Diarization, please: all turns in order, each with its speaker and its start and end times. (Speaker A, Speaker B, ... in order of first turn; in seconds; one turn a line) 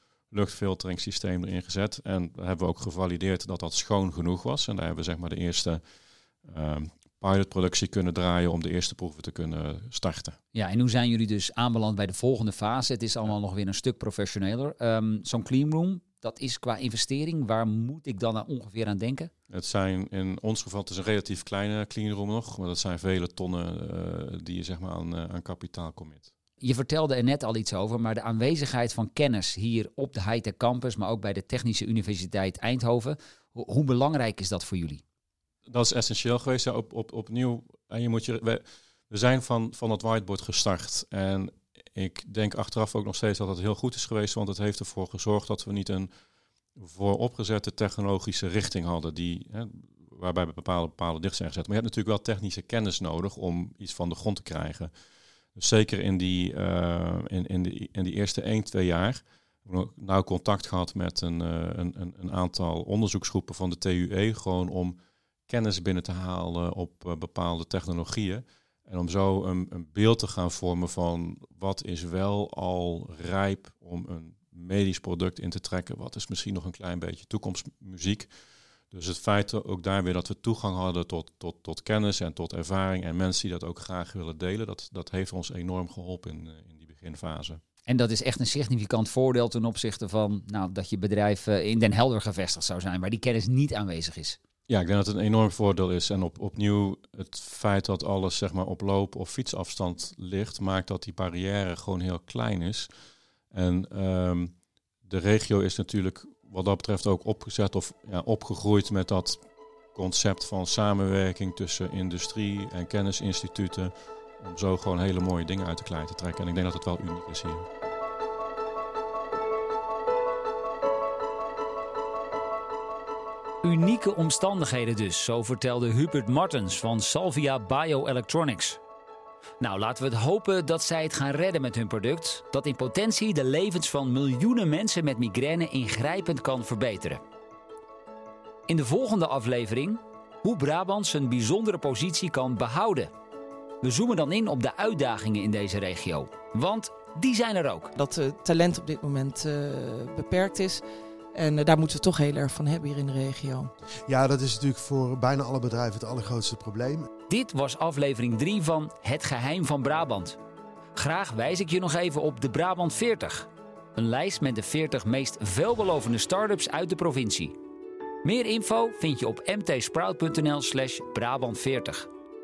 Speaker A: 0.3-5.8
Speaker A: 6.5-10.4
Speaker B: 10.5-19.3
Speaker A: 19.5-26.3
Speaker B: 26.6-35.0
Speaker A: 35.7-46.1
Speaker A: 46.8-54.9
Speaker A: 55.5-65.0
Speaker A: 65.5-78.3
Speaker A: 78.9-87.6
Speaker B: 87.9-94.4
Speaker A: 94.7-102.9
Speaker A: 103.5-104.5
Speaker A: 105.0-109.4
Speaker A: 109.9-117.7
Speaker B: 123.6-128.8
Speaker B: 129.6-137.2
Speaker B: 138.7-143.1
Speaker B: 143.8-147.9
Speaker C: 148.0-150.8
Speaker C: 151.3-153.7
Speaker D: 154.1-157.1
Speaker B: 157.3-160.4
Speaker B: 160.9-167.6
Speaker B: 168.2-172.1